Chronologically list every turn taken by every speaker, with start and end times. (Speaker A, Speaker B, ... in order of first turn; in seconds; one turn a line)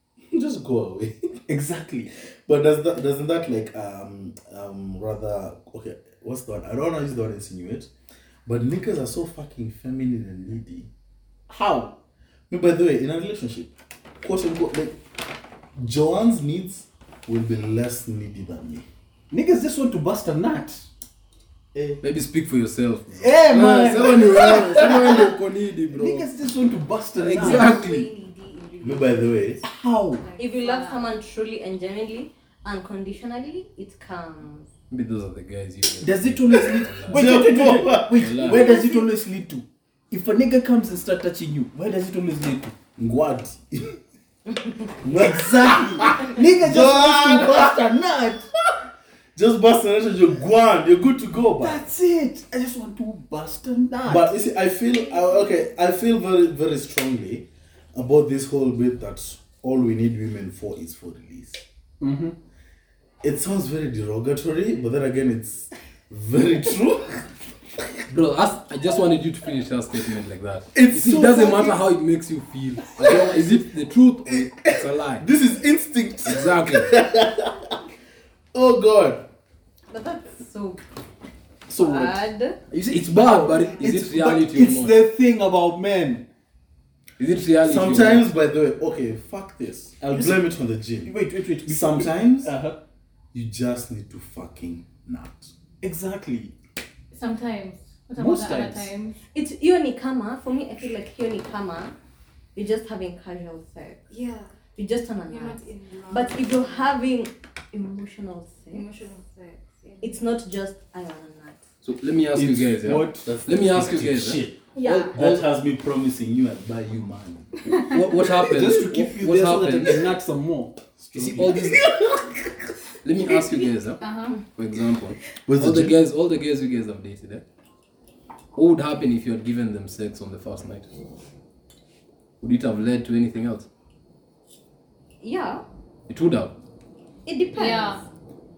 Speaker A: 0.3-1.4
Speaker B: 1.5-2.1
Speaker A: 2.5-7.9
Speaker A: 8.5-10.9
Speaker B: 11.5-12.0
Speaker A: 12.5-15.0
Speaker A: 15.8-18.9
Speaker B: 19.3-20.9
Speaker A: 21.7-22.1
Speaker C: 22.0-26.3
Speaker B: 23.1-25.3
Speaker A: 24.6-25.2
Speaker B: 25.9-27.9
Speaker C: 27.3-28.1
Speaker D: 27.3-29.2
Speaker A: 28.8-29.6
Speaker B: 29.6-30.2
Speaker D: 30.2-31.0
Speaker E: 30.4-34.7
Speaker C: 34.9-37.5
Speaker B: 36.0-42.8
Speaker A: 37.1-38.5
Speaker C: 38.1-38.8
Speaker E: 38.5-39.0
Speaker A: 43.0-44.0
Speaker A: 45.0-47.8
Speaker B: 45.1-48.5
Speaker A: 49.4-51.9
Speaker B: 51.6-54.3
Speaker A: 54.0-61.6
Speaker B: 62.0-62.4
Speaker A: 63.2-67.3
Speaker C: 68.1-75.2
Speaker A: 70.7-71.8
Speaker A: 73.0-73.4
Speaker A: 74.3-77.8
Speaker C: 76.2-76.9
Speaker A: 78.5-79.3
Speaker E: 79.9-80.8
Speaker B: 81.7-82.2
Speaker E: 81.8-82.6
Speaker C: 82.7-85.0
Speaker B: 82.8-86.3
Speaker C: 87.2-88.3
Speaker A: 87.6-92.5
Speaker B: 90.0-90.5
Speaker B: 91.0-92.8
Speaker A: 93.3-95.5
Speaker B: 95.8-96.5
Speaker F: 97.1-99.2
Speaker B: 98.2-98.9
Speaker E: 99.3-102.0
Speaker E: 102.5-104.1
Speaker D: 104.1-104.5
Speaker E: 104.8-108.9
Speaker D: 105.2-107.0
Speaker D: 108.7-110.2
Speaker E: 110.0-111.6
Speaker C: 111.8-114.4
Speaker B: 112.3-113.3
Speaker A: 113.2-117.5
Speaker E: 114.8-115.1
Speaker F: 117.7-118.1
Speaker C: 117.8-120.1
Speaker B: 118.4-122.0
Speaker A: 121.0-121.8
Speaker C: 121.3-121.8
Speaker C: 123.0-127.4
Speaker F: 124.0-124.4
Speaker A: 125.5-126.0
Speaker C: 128.6-130.9
Speaker C: 132.4-133.7
Speaker E: 135.2-135.6
Speaker C: 136.1-136.6
Speaker E: 137.3-138.0
Speaker F: 137.6-138.0